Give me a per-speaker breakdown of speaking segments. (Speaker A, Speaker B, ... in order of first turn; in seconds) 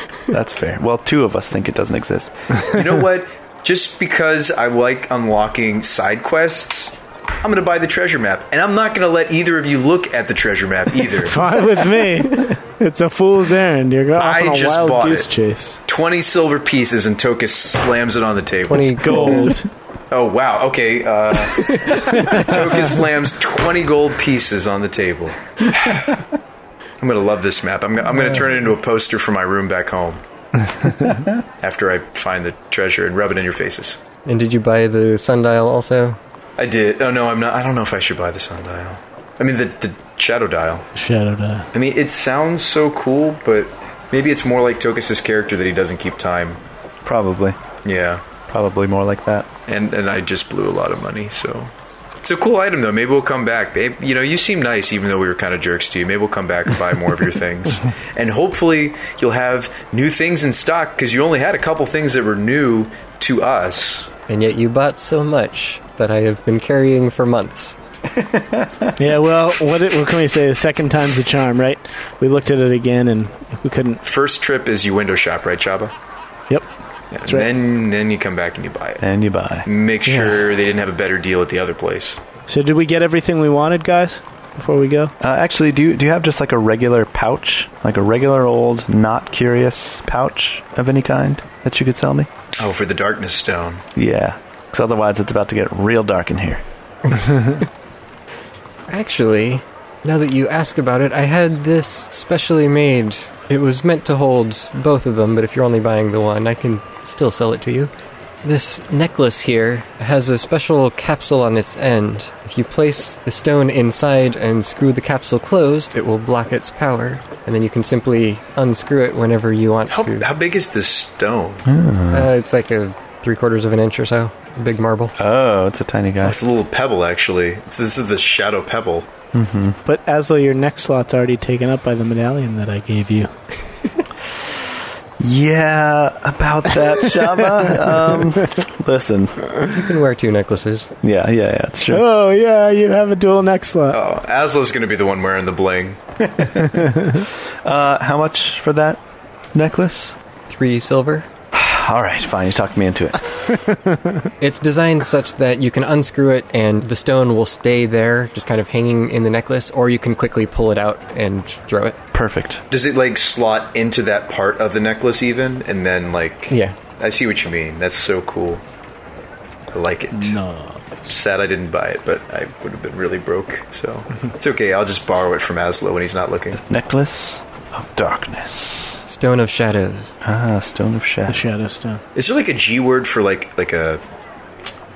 Speaker A: 0.3-2.5, 47.0-47.6, 48.5-49.5, 68.1-69.0, 79.0-79.7, 85.2-92.3, 94.0-96.6, 121.7-122.3, 125.2-126.4, 129.3-129.8, 135.2-139.6, 141.0-142.0, 146.2-149.0, 149.5-150.1, 151.5-153.3, 162.1-162.6, 176.5-179.0, 180.2-181.4
Speaker B: 2.6-11.4, 14.1-15.3, 15.9-19.6, 20.1-26.2, 27.0-30.2, 31.6-34.0, 36.6-40.9, 41.7-46.6, 47.8-48.2, 49.7-51.7, 52.2-64.1, 74.0-75.9, 77.1-79.0, 79.6-82.2, 92.6-93.8, 119.9-121.7, 126.2-129.1, 143.9-146.0, 162.7-168.6, 169.7-170.4, 171.0-176.6, 182.1-184.0
Speaker C: 11.1-15.8, 18.7-19.7, 30.6-31.2, 40.9-41.7, 69.0-74.0, 77.2-77.5, 80.1-80.3, 82.5-85.1, 129.8-133.3, 136.8-138.4, 141.9-144.0, 146.7-147.2, 153.5-154.2, 170.2-170.9, 181.3-182.0
Speaker D: 18.7-19.5, 21.6-22.5, 34.2-36.2, 64.3-67.7, 98.9-107.9, 108.4-120.3, 122.1-125.1, 139.7-140.9, 150.5-151.2, 154.4-162.0, 166.5-166.7, 179.1-180.1